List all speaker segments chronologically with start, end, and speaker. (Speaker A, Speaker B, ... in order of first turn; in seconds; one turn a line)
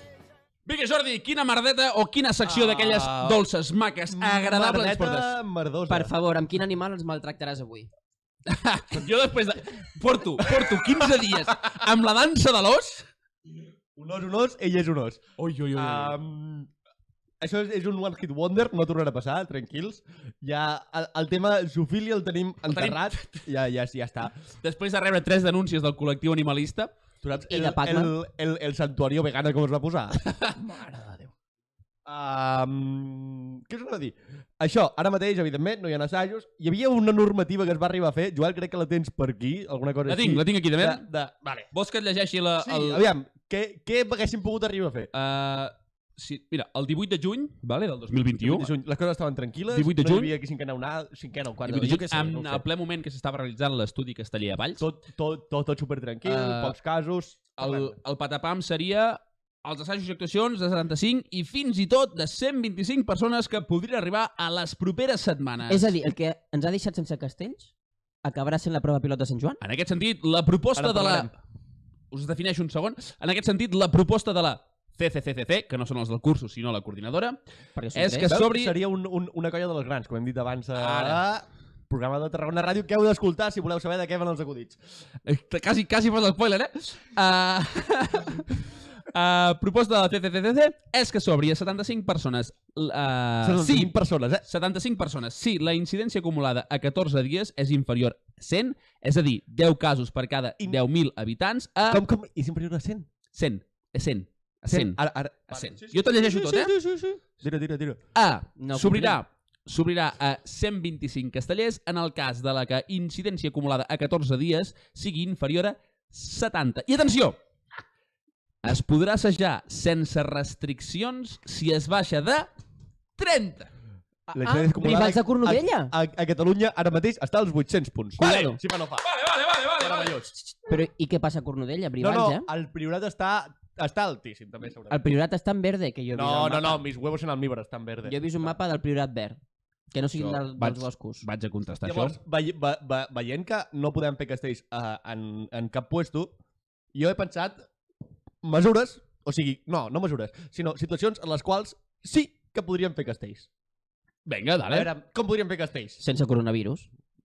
Speaker A: 0.7-5.3
Speaker B: 2.4-3.4
Speaker B: 4.1-6.1
Speaker C: 5.9-7.9
Speaker A: 8.4-13.1
Speaker B: 10.4-11.1
Speaker B: 13.9-16.7
Speaker A: 15.4-16.2
Speaker B: 17.4-24.3
Speaker A: 22.7-23.4
Speaker A: 24.6-26.9
Speaker B: 27.2-31.3
Speaker C: 27.5-28.1
Speaker A: 30.3-30.6
Speaker B: 32.0-41.7
Speaker A: 40.1-41.0
Speaker A: 41.7-43.0
Speaker B: 42.6-45.1
Speaker A: 45.1-48.7
Speaker B: 48.4-52.6
Speaker A: 49.7-50.3
Speaker A: 51.6-54.8
Speaker B: 54.8-58.0
Speaker A: 56.2-56.7
Speaker A: 57.6-65.9
Speaker C: 65.7-67.7
Speaker C: 68.2-69.6
Speaker A: 69.6-71.3
Speaker B: 70.8-71.3
Speaker A: 72.1-77.4
Speaker C: 77.8-78.3
Speaker A: 77.9-78.8
Speaker B: 78.3-84.8
Speaker A: 80.8-81.2
Speaker A: 85.2-93.9
Speaker B: 93.4-94.4
Speaker A: 94.5-102.0
Speaker B: 101.9-103.1
Speaker A: 103.3-105.0
Speaker B: 104.7-108.0
Speaker A: 105.5-106.7
Speaker A: 108.1-117.4
Speaker C: 108.6-109.2
Speaker A: 118.6-122.5
Speaker A: 123.2-123.7
Speaker B: 124.3-129.1
Speaker C: 124.3-125.9
Speaker A: 128.2-130.2
Speaker C: 128.2-128.5
Speaker B: 129.8-130.3
Speaker C: 130.7-132.5
Speaker B: 132.0-135.0
Speaker C: 134.9-136.8
Speaker B: 136.1-138.2
Speaker C: 138.0-139.4
Speaker C: 139.9-141.2
Speaker A: 140.1-142.2
Speaker B: 141.8-146.3
Speaker B: 146.9-147.6
Speaker B: 148.4-153.5
Speaker A: 154.2-154.9
Speaker B: 154.7-156.0
Speaker C: 156.0-156.9